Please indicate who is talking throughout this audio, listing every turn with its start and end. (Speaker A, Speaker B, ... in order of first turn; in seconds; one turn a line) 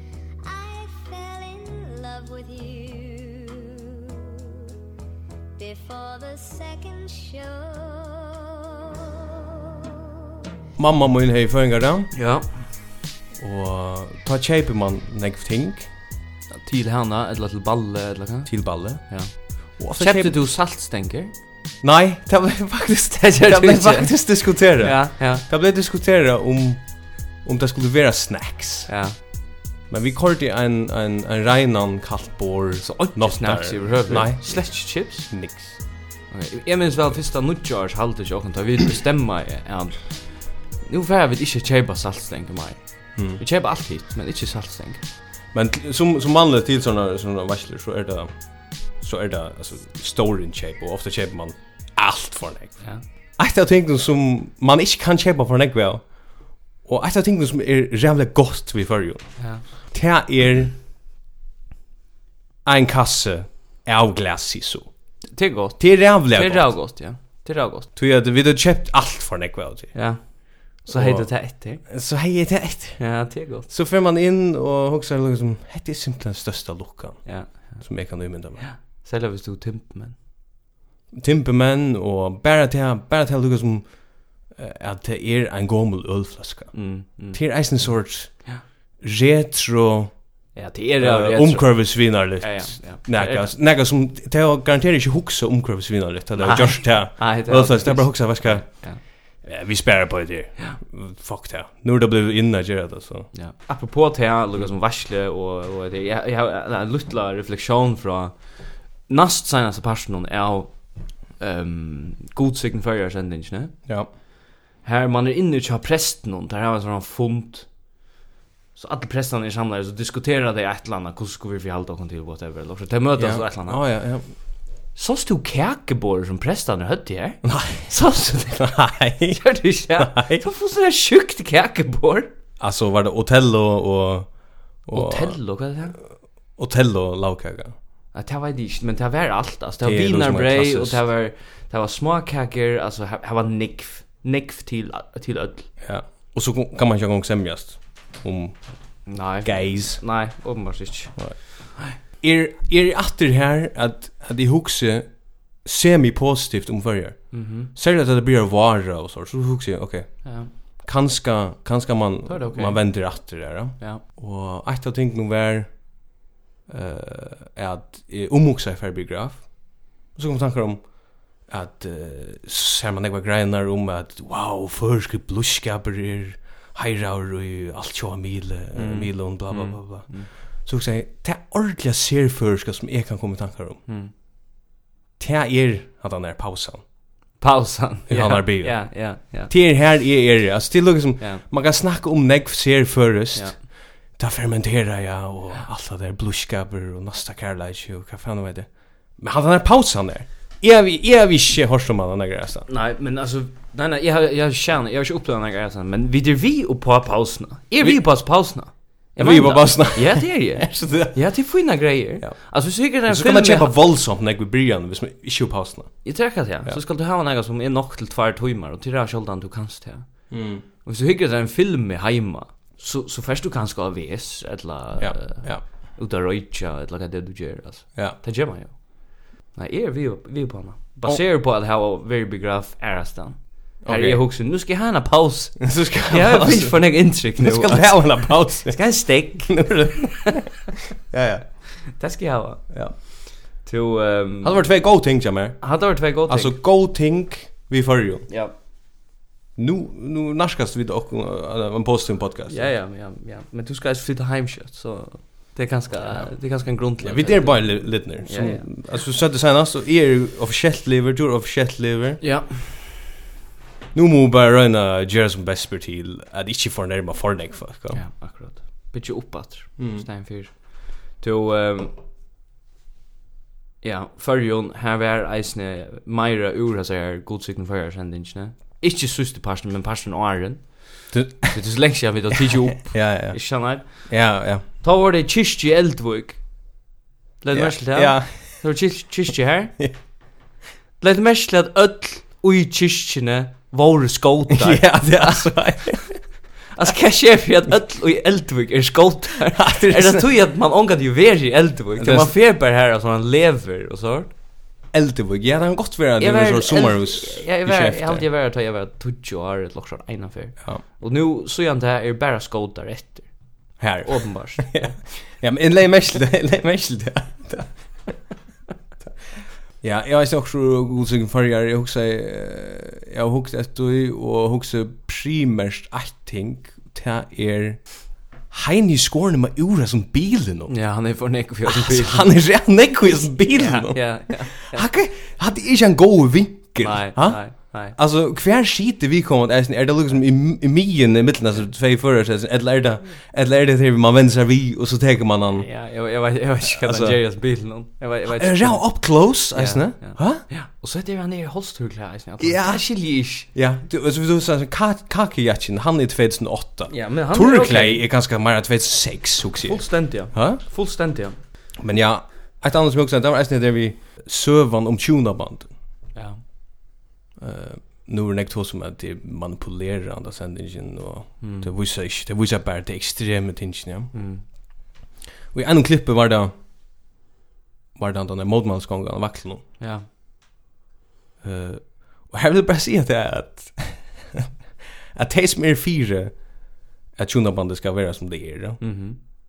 Speaker A: 0.4-4.4
Speaker A: 5.6-9.1
Speaker B: 10.8-12.1
Speaker C: 12.1-12.6
Speaker B: 13.4-15.9
Speaker C: 16.5-21.3
Speaker B: 18.5-20.4
Speaker B: 21.8-28.9
Speaker C: 23.3-25.4
Speaker C: 28.9-29.2
Speaker B: 29.9-35.9
Speaker C: 32.8-35.7
Speaker C: 36.3-45.0
Speaker B: 43.2-43.4
Speaker B: 45.5-60.7
Speaker C: 59.4-59.6
Speaker B: 62.6-64.9
Speaker C: 65.3-67.9
Speaker B: 65.8-66.8
Speaker B: 68.0-70.4
Speaker C: 69.9-71.9
Speaker B: 70.9-78.7
Speaker C: 73.0-73.7
Speaker C: 77.2-80.2
Speaker B: 81.1-103.3
Speaker C: 86.7-87.9
Speaker C: 90.5-93.5
Speaker C: 96.4-99.0
Speaker C: 103.3-113.9
Speaker C: 114.8-117.7
Speaker C: 118.8-123.8
Speaker B: 123.2-124.3
Speaker C: 125.0-128.7
Speaker B: 127.4-130.4
Speaker C: 129.3-132.3
Speaker B: 132.6-135.4
Speaker C: 134.9-136.0
Speaker B: 136.5-137.8
Speaker C: 138.1-145.7
Speaker B: 139.8-141.0
Speaker B: 145.8-150.0
Speaker C: 149.1-152.0
Speaker B: 151.2-166.2
Speaker C: 157.3-157.7
Speaker C: 160.2-160.5
Speaker C: 162.3-164.0
Speaker B: 166.7-183.8
Speaker C: 178.8-180.3
Speaker C: 183.9-184.1
Speaker B: 185.2-186.8
Speaker C: 187.4-189.5
Speaker B: 188.1-202.7
Speaker C: 202.7-213.8
Speaker B: 207.8-208.2
Speaker B: 209.2-211.6
Speaker B: 212.2-216.8
Speaker C: 216.0-220.3
Speaker B: 220.3-220.6
Speaker C: 220.8-240.1
Speaker B: 225.0-225.7
Speaker B: 233.8-234.2
Speaker B: 235.6-241.7
Speaker C: 241.9-244.9
Speaker B: 242.7-243.0
Speaker B: 244.4-248.3
Speaker C: 245.6-246.6
Speaker C: 248.3-248.6
Speaker B: 249.6-252.7
Speaker C: 252.5-258.7
Speaker B: 256.0-262.2
Speaker C: 262.2-262.8
Speaker B: 263.9-268.0
Speaker C: 267.9-271.9
Speaker B: 269.8-270.1
Speaker C: 273.8-286.4
Speaker B: 281.1-281.6
Speaker B: 282.5-284.6
Speaker C: 287.4-289.8
Speaker B: 287.5-288.7
Speaker C: 291.0-295.9
Speaker B: 294.5-296.3
Speaker C: 296.7-304.3
Speaker B: 299.6-300.3
Speaker B: 302.0-302.3
Speaker B: 304.9-308.3
Speaker C: 306.2-314.9
Speaker B: 313.8-318.2
Speaker B: 319.8-330.8
Speaker C: 330.7-334.9
Speaker B: 331.7-345.7
Speaker C: 336.8-337.9
Speaker C: 345.6-353.5
Speaker B: 346.6-347.2
Speaker B: 348.3-350.4
Speaker B: 352.4-360.6
Speaker C: 356.9-358.1
Speaker C: 359.6-361.4
Speaker B: 361.8-365.7
Speaker C: 366.1-366.4
Speaker B: 367.4-374.2
Speaker C: 371.4-371.8
Speaker C: 374.1-374.4
Speaker B: 375.5-376.5
Speaker B: 378.0-379.6
Speaker C: 379.8-380.1
Speaker B: 381.4-384.5
Speaker B: 385.1-389.0
Speaker C: 388.8-389.2